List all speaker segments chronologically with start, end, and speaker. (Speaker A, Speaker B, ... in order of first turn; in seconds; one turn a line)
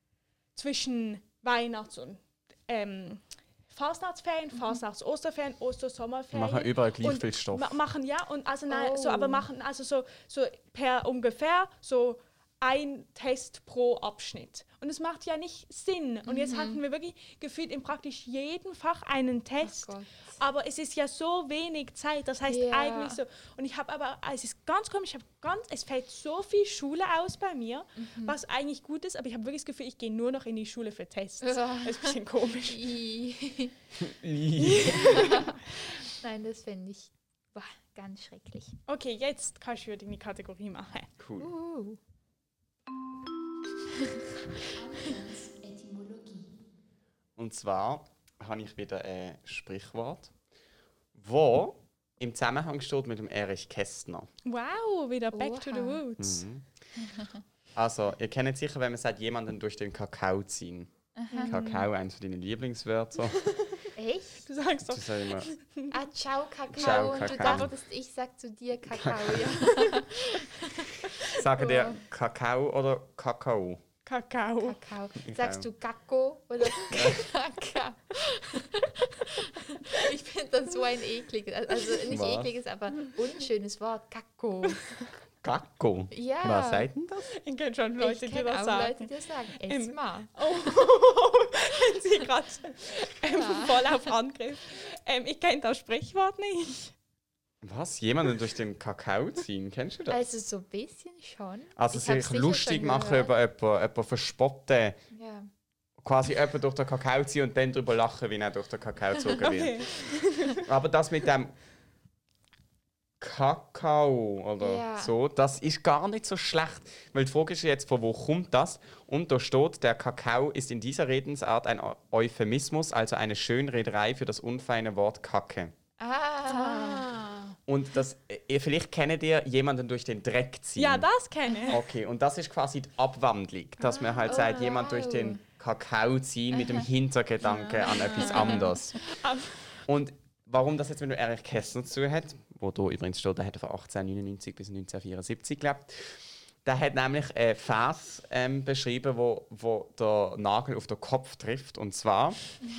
Speaker A: 0.5-32.9
Speaker B: 6.3-7.8
Speaker C: 8.7-9.5
Speaker C: 16.2-16.8
Speaker C: 19.6-20.4
Speaker C: 22.5-23.2
Speaker C: 28.0-28.4
Speaker C: 31.4-32.1
Speaker C: 32.7-33.7
Speaker B: 34.0-35.4
Speaker A: 34.6-35.5
Speaker C: 35.0-38.8
Speaker A: 38.9-41.1
Speaker B: 41.2-41.5
Speaker C: 41.4-42.0
Speaker C: 44.1-46.5
Speaker B: 47.4-50.3
Speaker B: 51.1-54.3
Speaker A: 54.4-56.4
Speaker C: 55.3-56.0
Speaker B: 56.2-56.6
Speaker C: 57.0-57.4
Speaker B: 57.7-60.9
Speaker C: 61.1-61.6
Speaker A: 61.3-61.9
Speaker B: 61.5-63.4
Speaker A: 63.4-63.9
Speaker C: 64.0-64.5
Speaker A: 64.5-65.9
Speaker B: 64.8-65.5
Speaker C: 65.9-72.0
Speaker B: 66.7-67.7
Speaker A: 66.8-67.6
Speaker B: 68.9-69.5
Speaker B: 71.2-73.8
Speaker A: 74.0-74.8
Speaker C: 74.6-84.8
Speaker B: 75.2-75.7
Speaker B: 76.9-77.3
Speaker B: 82.1-82.5
Speaker B: 85.4-87.3
Speaker C: 86.1-86.9
Speaker A: 87.3-89.1
Speaker C: 88.0-90.3
Speaker A: 89.7-96.9
Speaker C: 93.2-94.1
Speaker B: 97.6-100.3
Speaker C: 100.1-103.3
Speaker B: 101.8-105.0
Speaker C: 105.1-105.5
Speaker B: 106.0-109.9
Speaker A: 109.3-110.6
Speaker B: 110.6-111.5
Speaker B: 113.2-125.7
Speaker C: 114.6-115.1
Speaker C: 126.0-127.1
Speaker A: 126.5-127.6
Speaker B: 127.7-131.1
Speaker A: 130.8-131.8
Speaker C: 131.5-131.8
Speaker B: 131.7-139.0
Speaker A: 133.9-134.6
Speaker C: 134.2-135.4
Speaker C: 136.5-136.8
Speaker A: 137.4-139.7
Speaker C: 137.9-138.7
Speaker B: 139.8-152.4